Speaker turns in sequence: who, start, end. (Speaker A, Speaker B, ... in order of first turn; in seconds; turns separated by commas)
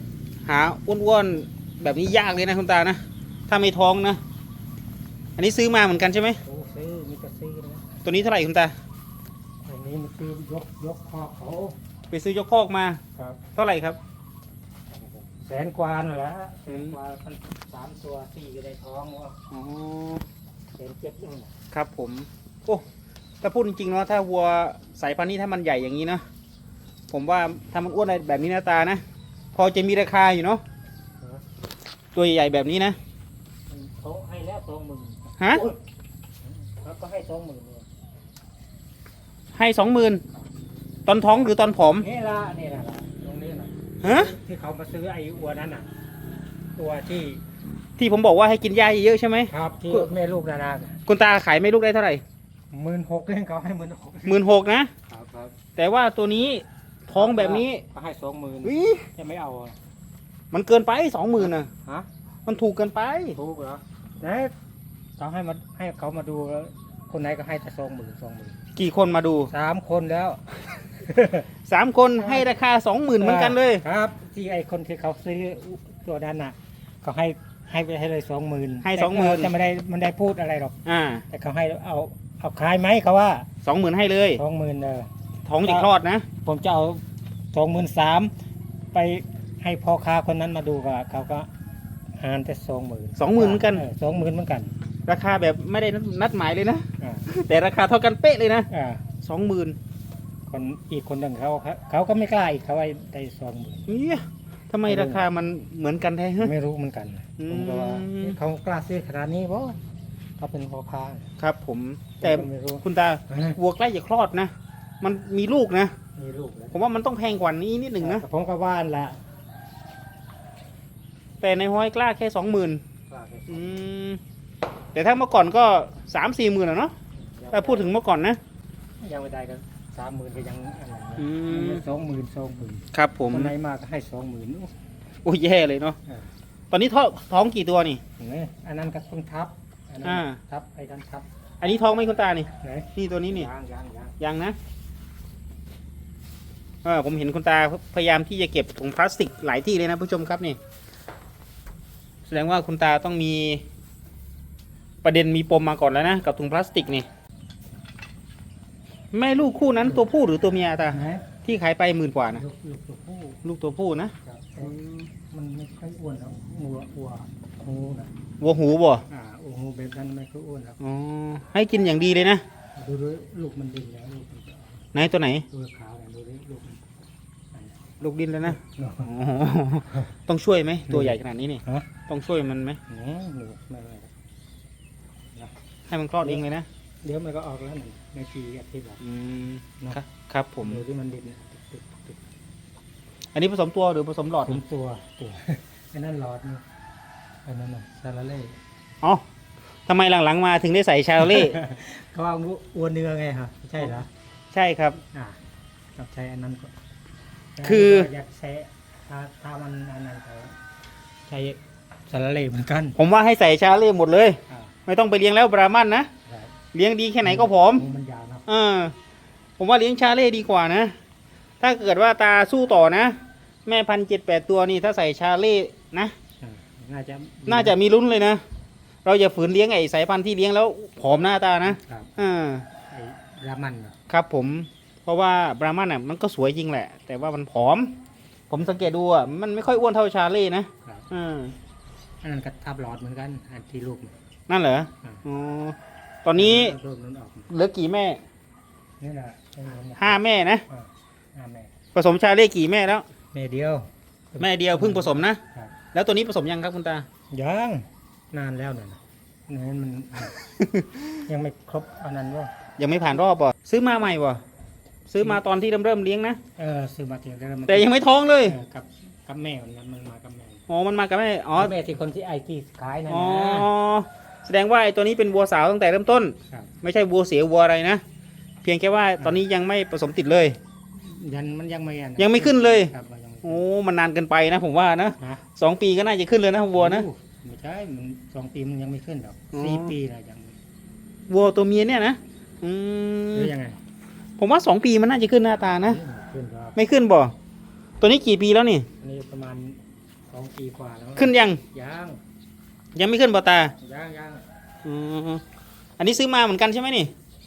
Speaker A: 0.5-4.2, Speaker A: 5.4-6.4, Speaker B: 6.4-8.0, Speaker A: 8.1-8.8, Speaker B: 9.7-11.8, Speaker A: 12.1-13.0, Speaker A: 13.6-14.0, Speaker B: 14.9-19.4, Speaker A: 16.7-17.0, Speaker A: 19.5-20.2, Speaker B: 20.8-21.5, Speaker A: 21.7-22.9, Speaker A: 23.4-26.2, Speaker A: 27.1-29.0, Speaker A: 29.5-30.6, Speaker A: 32.1-33.0, Speaker B: 33.7-35.8, Speaker A: 35.4-35.6, Speaker B: 36.5-37.9, Speaker A: 39.5-40.2, Speaker A: 41.1-42.1, Speaker B: 42.0-45.9, Speaker A: 44.0-44.3, Speaker B: 46.8-47.4, Speaker A: 48.0-50.1, Speaker B: 49.5-51.0, Speaker A: 51.1-52.2, Speaker B: 52.7-54.4, Speaker A: 54.3-54.9, Speaker B: 55.1-55.5, Speaker A: 55.8-57.8, Speaker B: 57.1-59.8, Speaker A: 58.6-59.1, Speaker A: 60.5-61.7, Speaker B: 61.4-62.1, Speaker A: 62.5-63.4, Speaker B: 63.4-64.5, Speaker B: 65.2-68.6, Speaker A: 68.8-69.5, Speaker B: 69.5-71.5, Speaker A: 71.7-73.8, Speaker B: 72.2-72.5, Speaker B: 73.2-80.8, Speaker A: 78.8-79.5, Speaker A: 80.9-81.2, Speaker B: 81.3-83.5, Speaker A: 83.6-84.4, Speaker B: 84.4-85.1, Speaker A: 85.5-86.3, Speaker B: 86.4-87.0, Speaker B: 87.5-88.3, Speaker B: 88.9-91.5, Speaker B: 92.2-94.8, Speaker A: 93.2-93.9, Speaker A: 95.1-98.7, Speaker B: 97.0-97.3, Speaker B: 98.7-99.0, Speaker A: 99.2-99.8, Speaker B: 100.5-103.9, Speaker A: 103.9-106.5, Speaker B: 104.8-105.3, Speaker B: 106.4-109.8, Speaker A: 107.4-108.4, Speaker B: 110.4-111.3, Speaker A: 111.4-115.9, Speaker B: 112.2-113.6, Speaker B: 116.2-116.8, Speaker A: 116.7-118.2, Speaker B: 118.0-119.2, Speaker A: 121.4-122.8, Speaker B: 123.1-123.8, Speaker A: 123.5-124.2, Speaker A: 124.9-126.9, Speaker B: 127.4-127.9, Speaker A: 127.5-128.4, Speaker B: 129.0-134.7, Speaker A: 131.2-131.9, Speaker A: 132.9-133.5, Speaker A: 135.2-136.0, Speaker A: 136.7-138.0, Speaker B: 138.2-141.3, Speaker A: 140.0-140.4, Speaker A: 141.6-143.5, Speaker B: 142.6-144.2, Speaker A: 144.2-144.6, Speaker A: 146.8-150.6, Speaker A: 152.2-153.6, Speaker A: 155.0-157.1, Speaker A: 159.1-162.4, Speaker B: 160.9-161.3, Speaker B: 162.3-163.4, Speaker A: 163.4-165.1, Speaker B: 164.2-168.1, Speaker A: 168.4-169.1, Speaker B: 169.1-170.8, Speaker A: 170.8-172.4, Speaker B: 172.8-174.9, Speaker A: 174.9-175.5, Speaker B: 175.5-176.8, Speaker A: 178.0-182.8, Speaker B: 178.5-179.1, Speaker B: 180.9-181.9, Speaker B: 182.9-184.1, Speaker A: 185.9-186.7, Speaker B: 187.0-189.0, Speaker A: 189.0-190.8, Speaker B: 190.6-192.2, Speaker A: 193.3-194.6, Speaker B: 194.5-196.6, Speaker B: 197.5-198.6, Speaker A: 199.9-201.6, Speaker B: 201.2-204.1, Speaker A: 204.5-205.0, Speaker B: 205.1-205.4, Speaker B: 206.0-206.7, Speaker B: 207.6-210.6, Speaker A: 207.6-208.1, Speaker B: 211.3-213.0, Speaker A: 213.0-216.1, Speaker B: 214.5-214.8, Speaker B: 216.2-216.6, Speaker A: 216.7-217.8, Speaker B: 217.2-218.5, Speaker A: 218.5-218.9, Speaker A: 219.6-221.0, Speaker A: 221.6-226.2, Speaker B: 226.4-227.8, Speaker A: 227.5-228.4, Speaker A: 229.1-232.7, Speaker B: 231.7-232.2, Speaker B: 232.9-234.0, Speaker A: 234.1-238.0, Speaker A: 238.5-241.5, Speaker B: 242.2-244.2, Speaker A: 244.5-246.8, Speaker B: 246.3-247.5, Speaker A: 247.5-248.2, Speaker B: 249.0-250.2, Speaker A: 250.0-250.6, Speaker B: 250.7-251.7, Speaker A: 251.9-253.1, Speaker B: 253.3-255.8, Speaker A: 254.4-255.4, Speaker A: 255.9-257.1, Speaker B: 257.3-260.3, Speaker A: 260.6-261.2, Speaker B: 261.2-262.5, Speaker A: 262.8-264.4, Speaker A: 265.1-266.4, Speaker B: 266.6-267.9, Speaker A: 267.7-268.6, Speaker B: 268.4-270.6, Speaker A: 270.7-271.8, Speaker B: 271.6-273.7, Speaker A: 273.1-278.0, Speaker A: 278.6-280.6, Speaker B: 280.9-283.6, Speaker A: 282.2-282.9, Speaker A: 283.4-287.1, Speaker B: 285.2-285.4, Speaker B: 286.7-290.6, Speaker A: 289.5-289.9, Speaker A: 291.3-293.5, Speaker B: 293.3-293.8, Speaker A: 294.4-296.0, Speaker B: 295.8-296.8, Speaker A: 296.8-297.3, Speaker A: 298.0-298.9, Speaker B: 299.0-302.2, Speaker A: 301.2-301.6, Speaker A: 302.9-303.7, Speaker B: 303.8-304.4, Speaker A: 304.8-305.4, Speaker A: 306.0-307.1